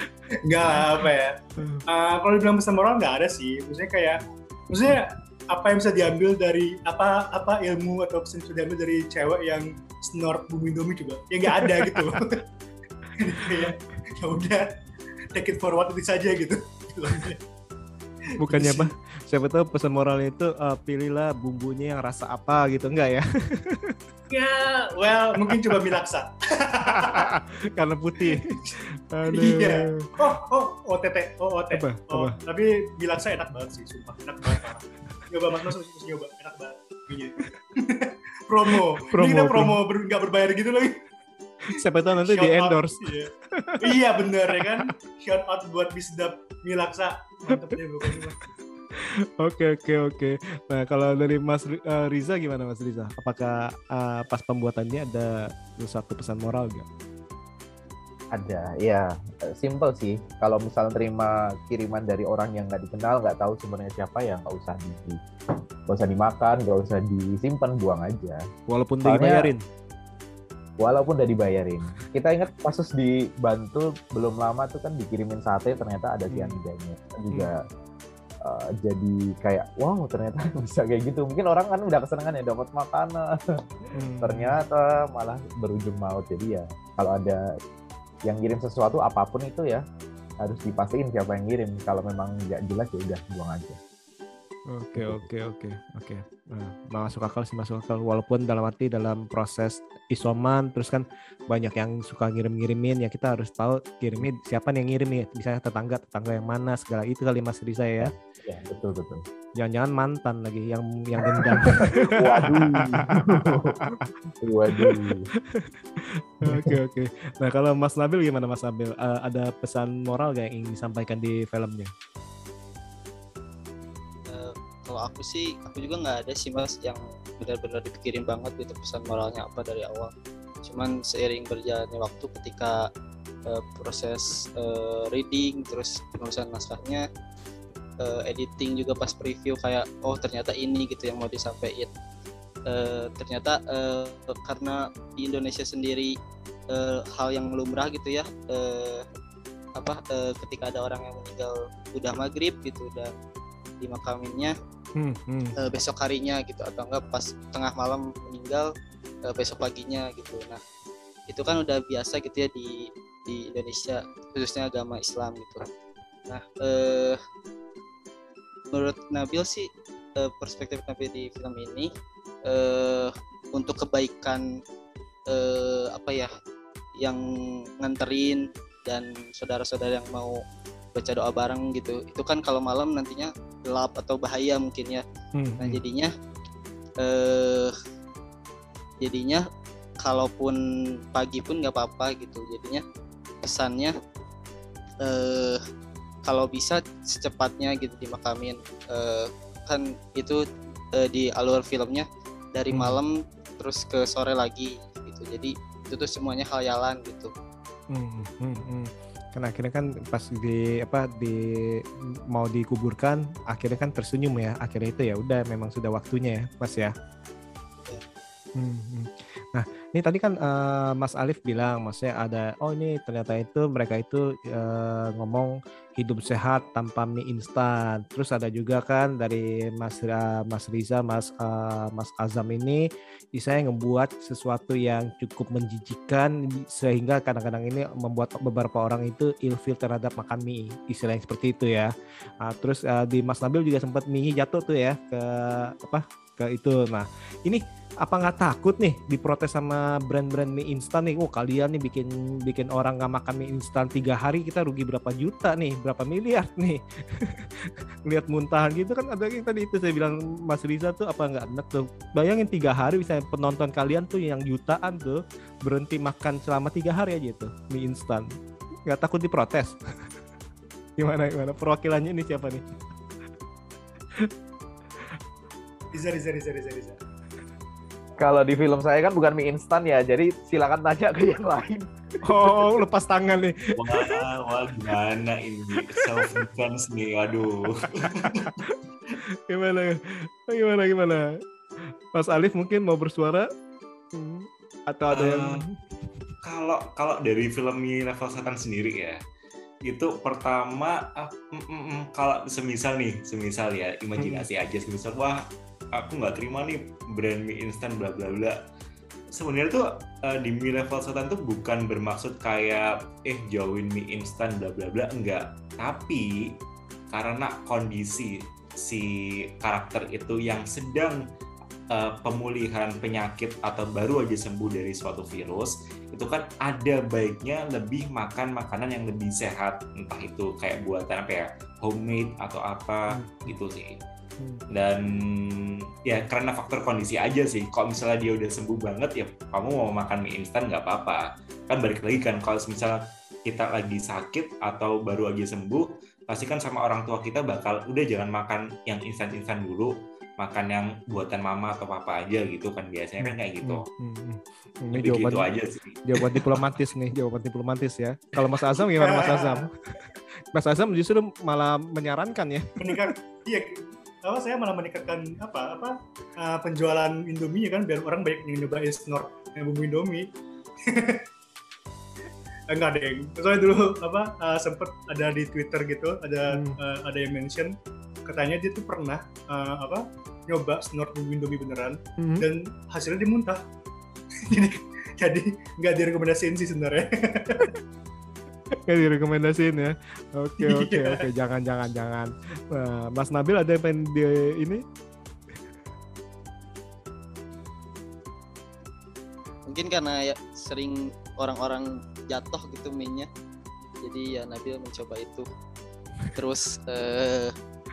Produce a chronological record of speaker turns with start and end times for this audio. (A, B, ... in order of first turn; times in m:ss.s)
0:00.4-0:12.4 A
0:00.7-0:01.0 B
0:11.5-0:12.2 B
0:13.2-0:14.6 A
0:13.4-0:13.7 B
0:15.3-0:17.4 A
0:18.2-0:18.9 A
0:18.4-0:24.0 B
0:24.3-0:27.3 A
0:25.5-0:25.7 B
0:26.9-0:28.5 B
0:28.2-0:28.6 A
0:29.1-0:30.2 B
0:29.3-0:41.0 A
0:31.7-0:32.3 B
0:39.0-0:39.8 B
0:41.7-0:43.9 B
0:42.2-0:48.4 A
0:44.6-0:44.9 B
0:49.0-0:56.8 B
0:58.3-1:05.2 C
1:05.9-1:08.4 C
1:08.7-1:09.6 B
1:09.0-1:09.5 C
1:10.8-1:17.6 C
1:16.3-1:16.6 B
1:18.4-1:23.3 C
1:23.8-1:27.4 C
1:23.9-1:24.6 B
1:28.3-1:29.8 C
1:30.4-1:33.8 C
1:34.7-1:48.1 B
1:35.0-1:35.3 C
1:48.0-1:49.2 C
1:49.6-1:54.0 B
1:51.2-1:55.3 C
1:54.7-2:01.9 B
1:56.5-1:56.8 C
2:04.3-2:10.1 D
2:10.6-2:12.8 D
2:13.4-2:17.0 D
2:18.0-2:21.9 D
2:22.7-2:26.1 D
2:26.7-2:29.0 D
2:29.8-2:33.1 D
2:33.8-2:34.5 D
2:35.0-2:35.5 B
2:35.6-2:38.7 D
2:39.3-2:40.6 D
2:41.3-2:45.6 D
2:46.3-2:47.2 D
2:48.7-2:49.7 D
2:50.2-2:51.9 D
2:52.5-2:54.4 D
2:55.3-2:56.3 D
2:57.8-3:00.4 D
3:00.9-3:05.0 D
3:05.4-3:05.8 B
3:05.6-3:06.1 D
3:07.0-3:07.7 D
3:09.0-3:09.4 D
3:10.0-3:10.6 D
3:11.1-3:12.8 D
3:13.4-3:13.9 D
3:15.0-3:15.6 D
3:16.2-3:20.4 D
3:21.0-3:27.3 D
3:22.7-3:23.0 B
3:27.9-3:36.9 B
3:38.6-4:28.3 B
4:28.9-4:29.8 B
4:31.0-4:32.6 B
4:35.9-4:37.0 A
4:38.2-4:41.8 C
4:42.2-4:44.2 B
4:43.8-4:48.6 E
4:47.8-4:48.7 B
4:49.5-4:51.2 B
4:51.8-4:53.5 B
4:54.1-4:55.7 B
4:55.1-4:55.6 E
4:56.4-4:59.2 E
4:59.8-5:08.6 E
5:04.2-5:04.5 B
5:09.3-5:16.5 E
5:17.1-5:21.2 E
5:21.9-5:34.0 E
5:33.1-5:33.5 B
5:34.7-5:53.8 E
5:53.2-5:55.5 B
5:54.9-5:56.5 E
5:56.0-6:03.1 B
5:58.4-5:59.7 A
6:02.8-6:10.3 A
6:10.8-6:11.2 A
6:12.7-6:17.7 A
6:16.5-6:16.8 B
6:18.2-6:23.6 A
6:22.2-6:22.4 B
6:24.5-6:27.7 A
6:28.8-6:34.8 B
6:30.6-6:31.3 A
6:39.7-6:43.3 D
6:44.0-6:45.4 D
6:46.3-6:47.5 D